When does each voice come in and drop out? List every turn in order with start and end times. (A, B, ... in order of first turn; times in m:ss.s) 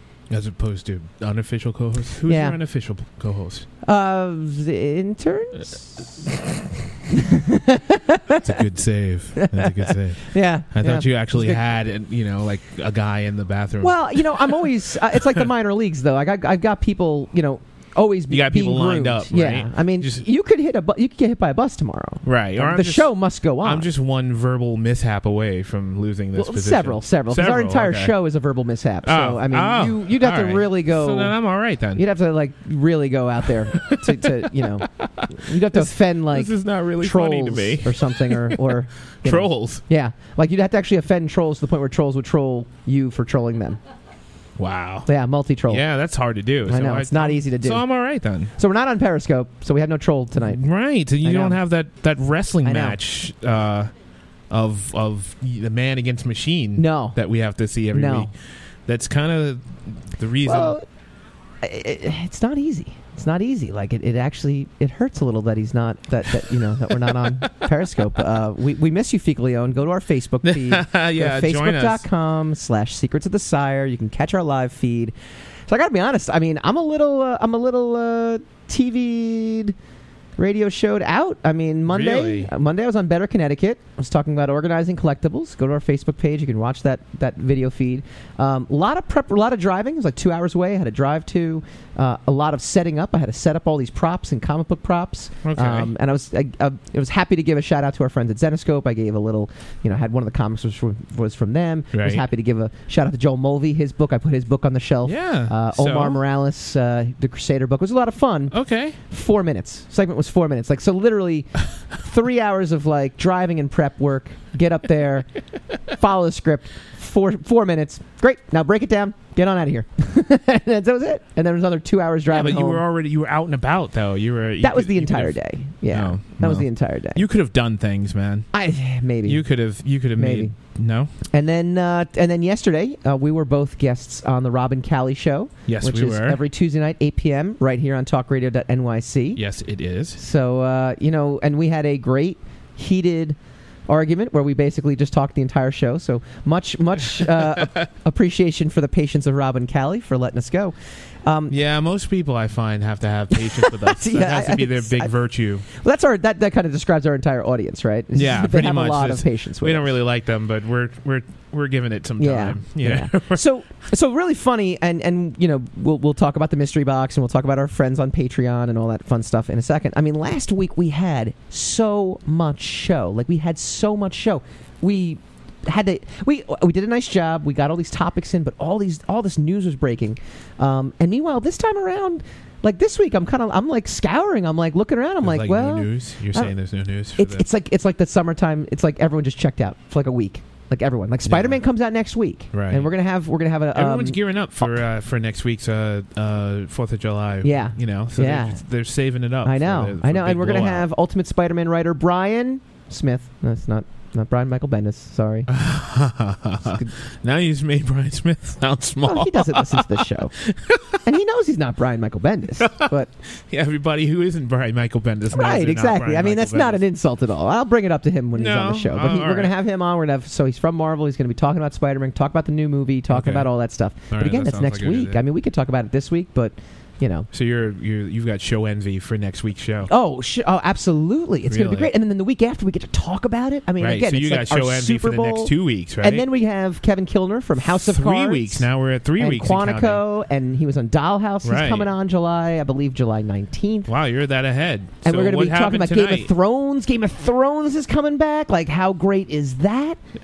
0:00.3-0:03.7 A
0:02.3-0:02.6 B
0:03.8-0:05.8 B
0:07.1-0:08.6 B
0:08.4-0:15.5 A
0:09.4-0:11.6 B
0:13.8-0:23.9 B
0:18.3-0:20.2 A
0:22.2-0:28.2 A
0:26.3-0:31.4 B
0:29.0-0:32.0 A
0:31.9-0:43.8 B
0:33.7-0:39.8 A
0:44.6-0:45.1 A
0:45.0-0:45.8 B
0:45.7-0:48.5 A
0:46.7-0:47.9 B
0:48.6-0:50.6 B
0:50.4-0:53.9 A
0:51.2-0:51.6 B
0:52.6-0:53.0 B
0:54.5-0:58.3 A
0:56.8-0:57.2 B
0:57.9-0:58.3 B
0:58.8-1:00.8 A
1:00.4-1:00.8 B
1:01.6-1:15.1 B
1:10.4-1:12.0 A
1:15.7-1:19.8 B
1:20.4-1:55.3 B
1:21.8-1:22.5 A
1:35.4-1:35.9 A
1:41.9-1:42.2 A
1:45.0-1:46.2 A
1:48.5-1:49.0 A
1:55.9-2:02.8 B
2:02.3-2:08.5 A
2:04.6-2:07.2 B
2:08.5-2:09.4 B
2:09.2-2:11.1 A
2:10.1-2:10.5 B
2:11.3-2:19.4 B
2:15.7-2:16.4 A
2:19.3-2:20.2 A
2:20.2-2:31.5 B
2:27.6-2:27.8 A
2:31.5-2:35.6 A
2:33.5-2:35.1 B
2:35.6-2:40.0 B
2:38.1-2:43.4 A
2:42.2-3:06.5 B
3:05.2-3:07.4 A
3:07.2-3:14.8 B
3:11.2-3:11.6 A
3:12.5-3:12.9 A
3:13.7-3:20.9 A
3:17.4-3:18.6 B
3:19.4-3:25.5 B
3:25.5-3:31.0 A
3:26.6-3:26.9 B
3:29.0-3:30.3 B
3:31.0-3:33.1 B
3:32.6-3:36.8 A
3:35.3-3:47.3 B
3:38.3-3:39.5 A
3:43.1-3:43.5 A
3:44.1-3:45.2 A
3:47.3-3:49.9 A
3:49.8-4:03.9 B
3:51.5-3:51.9 A
3:53.8-3:56.2 A
3:57.6-4:00.0 A
4:01.4-4:01.9 A
4:03.9-4:06.3 A
4:05.0-4:10.0 B